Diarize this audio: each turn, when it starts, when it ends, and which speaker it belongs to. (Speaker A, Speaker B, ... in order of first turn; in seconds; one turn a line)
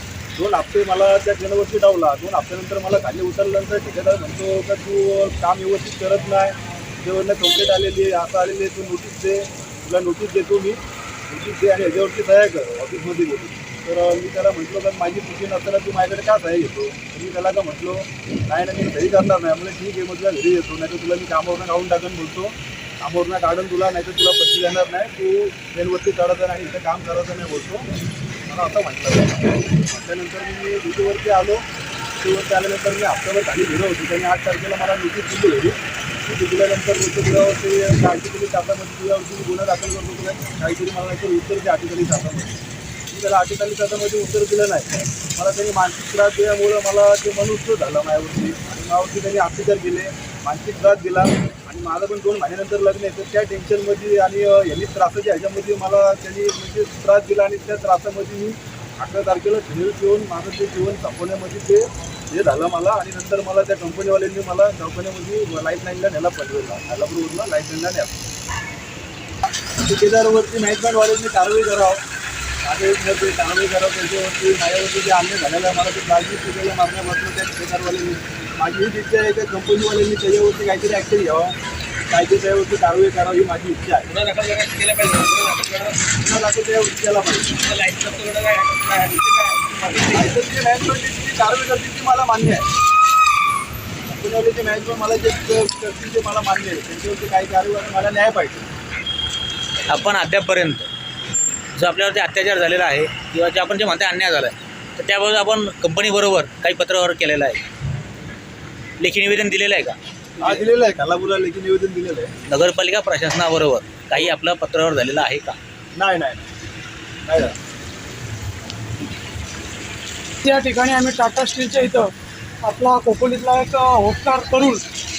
Speaker A: 0.3-27.9
Speaker A: 28.5-31.6
Speaker A: 32.2-42.6
Speaker A: 43.1-68.1
Speaker A: 69.9-72.0
Speaker A: 72.6-81.6
Speaker A: 82.1-84.1
Speaker B: 84.1-86.0
Speaker A: 86.2-87.5
Speaker B: 87.6-90.3
Speaker A: 90.1-92.7
Speaker A: 94.1-98.7
Speaker B: 99.9-100.9
Speaker B: 101.8-107.6
Speaker B: 109.0-110.7
Speaker A: 110.4-112.3
Speaker B: 112.5-115.6
Speaker A: 115.9-116.5
Speaker A: 117.2-117.6
Speaker C: 120.4-122.1
Speaker C: 122.6-124.8